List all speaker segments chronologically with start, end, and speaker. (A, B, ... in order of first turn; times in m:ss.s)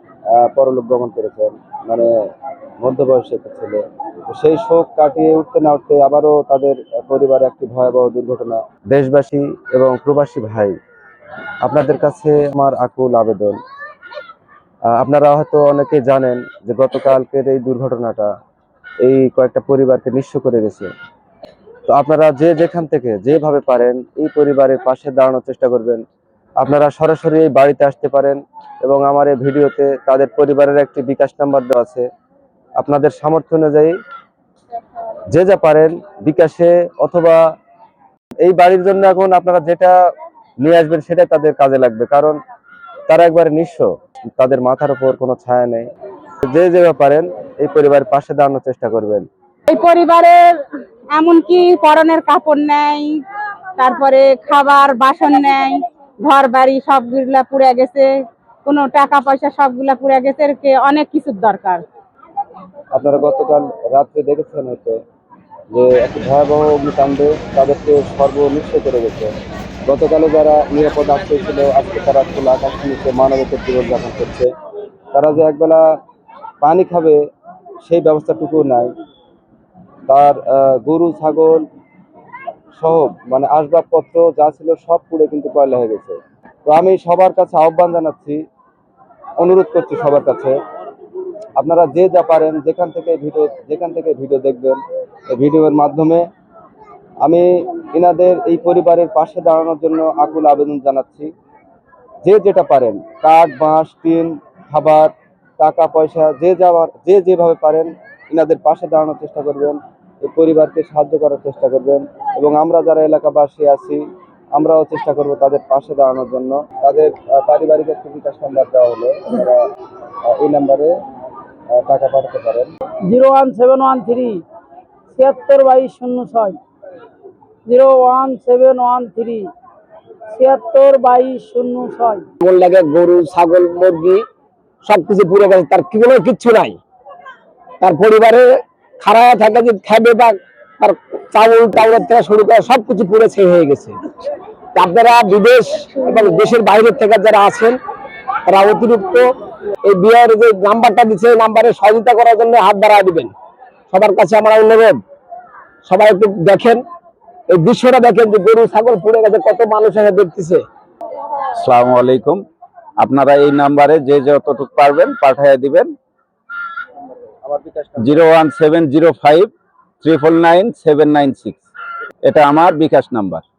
0:00.4-0:02.1 A
0:02.8-0:10.8 A
0:11.6-0:13.6 A
0:14.9-0:18.3 A
0:19.0-0:20.9 A
0:21.9-0:26.0 A
0:26.6-0:32.1 A
0:32.8-0:34.0 A
0:35.3-0:37.4 A
0:38.4-0:40.0 A
0:40.6-0:42.4 A
0:43.1-0:45.9 A
0:46.5-0:49.3 A
0:49.7-0:50.6 B
0:51.1-0:53.2 B
0:53.8-0:58.1 B
0:58.6-1:01.8 B
1:02.9-1:05.0 A
1:05.7-1:09.3 A
1:09.9-1:14.5 A
1:15.1-1:15.9 A
1:16.6-1:17.2 A
1:17.8-1:18.9 A
1:20.1-1:21.6 A
1:22.8-1:28.4 A
1:29.4-1:30.6 A
1:31.6-1:34.8 A
1:35.3-1:36.3 A
1:37.2-1:41.3 A
1:42.2-1:59.6 A
2:00.3-2:00.9 A
2:01.7-2:02.7 A
2:03.1-2:04.4 C
2:05.1-2:06.6 C
2:07.7-2:09.5 C
2:10.3-2:12.3 C
2:12.4-2:14.2 D
2:14.8-2:16.8 D
2:17.8-2:24.0 D
2:24.8-2:27.8 D
2:28.5-2:29.3 D
2:29.8-2:33.3 D
2:33.9-2:35.0 D
2:35.8-2:36.8 D
2:37.5-2:40.6 D
2:41.6-2:42.4 E
2:43.0-2:45.9 E
2:47.4-2:48.3 A
2:48.0-2:49.5 E
2:50.0-2:51.7 E
2:52.2-2:53.4 E